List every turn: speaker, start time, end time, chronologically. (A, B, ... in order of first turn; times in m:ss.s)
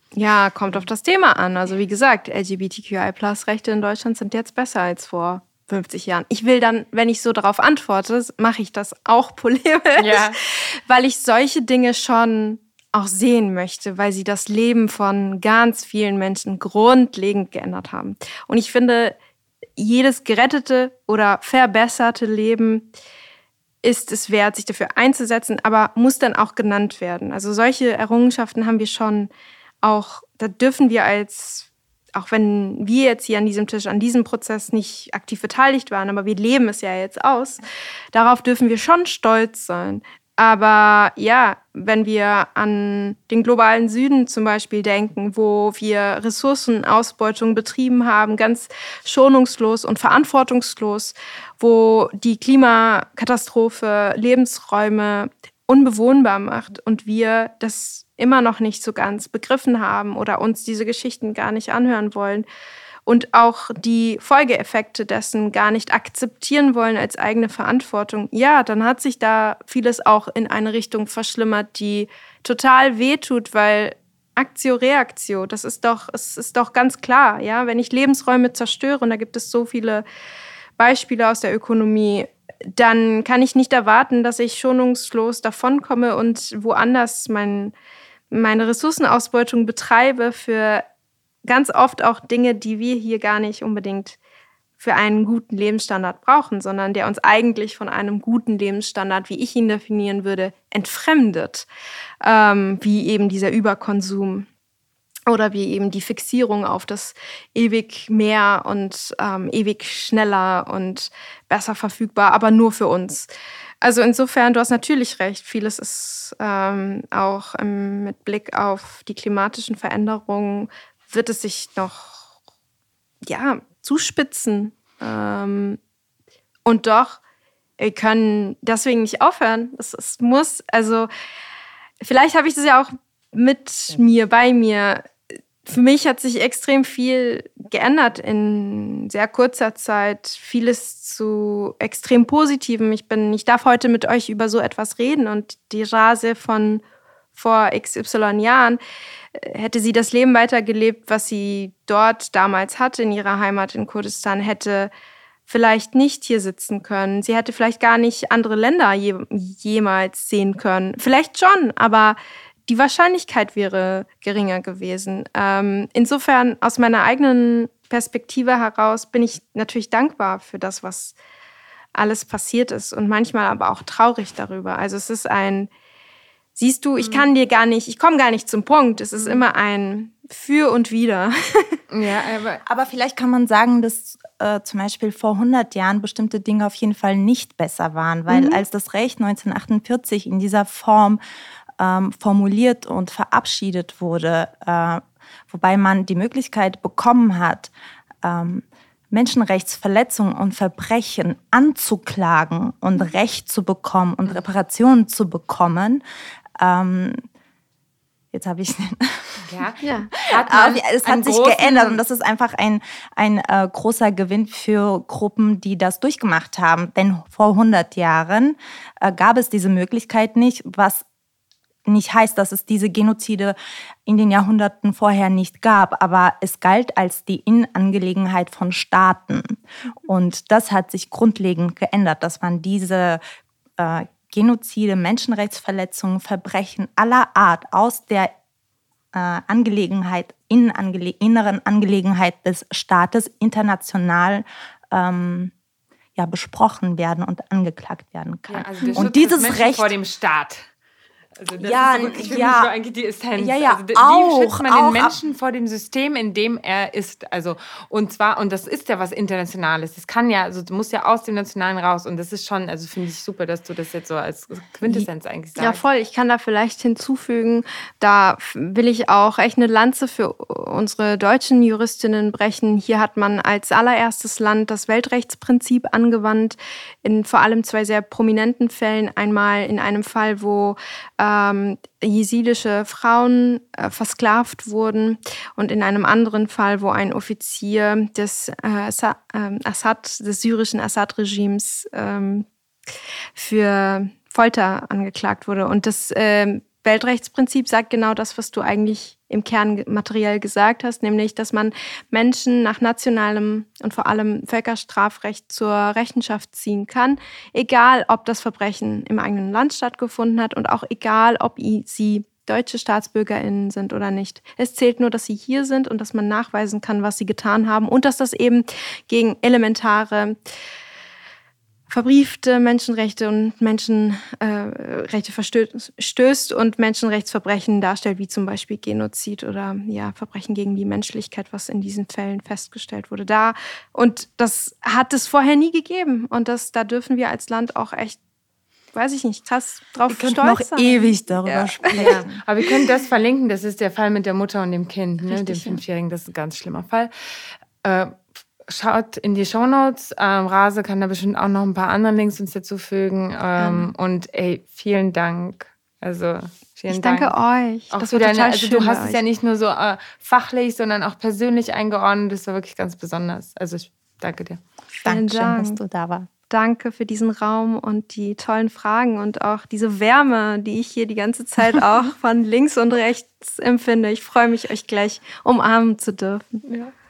0:00.2-0:19.2 A
0:10.0-0:10.4 B
0:19.8-0:22.9 A
0:23.8-0:29.3 A
0:29.8-0:37.6 A
0:38.1-1:02.5 A
1:03.1-1:20.0 A
1:20.8-1:27.7 A
1:28.3-1:30.8 A
1:31.5-1:34.2 A
1:34.8-1:41.7 A
1:42.2-1:44.5 A
1:45.3-1:53.3 A
1:53.8-2:02.3 A
2:03.3-2:05.8 A
2:06.7-2:07.2 A
2:07.8-2:11.1 A
2:12.0-2:15.1 A
2:15.6-2:26.8 A
2:27.4-2:28.8 A
2:29.4-2:34.9 A
2:35.5-2:51.2 A
2:52.0-2:55.7 A
2:56.6-3:01.8 A
2:57.0-2:57.3 B
2:59.2-2:59.4 B
3:01.9-3:02.6 B
3:02.7-3:11.2 C
3:08.3-3:08.6 A
3:11.8-3:17.7 C
3:18.2-3:26.0 C
3:26.6-3:27.2 C
3:28.3-3:29.5 C
3:29.5-3:32.0 B
3:29.8-3:30.1 A
3:30.2-3:41.0 C
3:41.9-3:53.2 C
3:53.8-3:58.3 C
3:59.1-4:05.5 C
4:06.2-4:09.9 C
4:08.5-4:10.7 B
4:11.4-4:25.8 B
4:11.6-4:12.7 C
4:13.4-4:15.2 C
4:25.6-4:52.5 A
4:53.4-5:20.4 A
5:21.9-5:38.2 A
5:38.9-5:42.8 A
5:40.1-5:42.4 C
5:41.9-5:57.3 B
5:45.3-5:45.8 A
5:53.6-5:53.9 A
5:56.9-5:59.2 A
5:57.9-6:04.6 B
6:05.0-6:05.8 A
6:05.0-6:06.3 C
6:06.5-6:16.6 A
6:16.7-6:16.9 B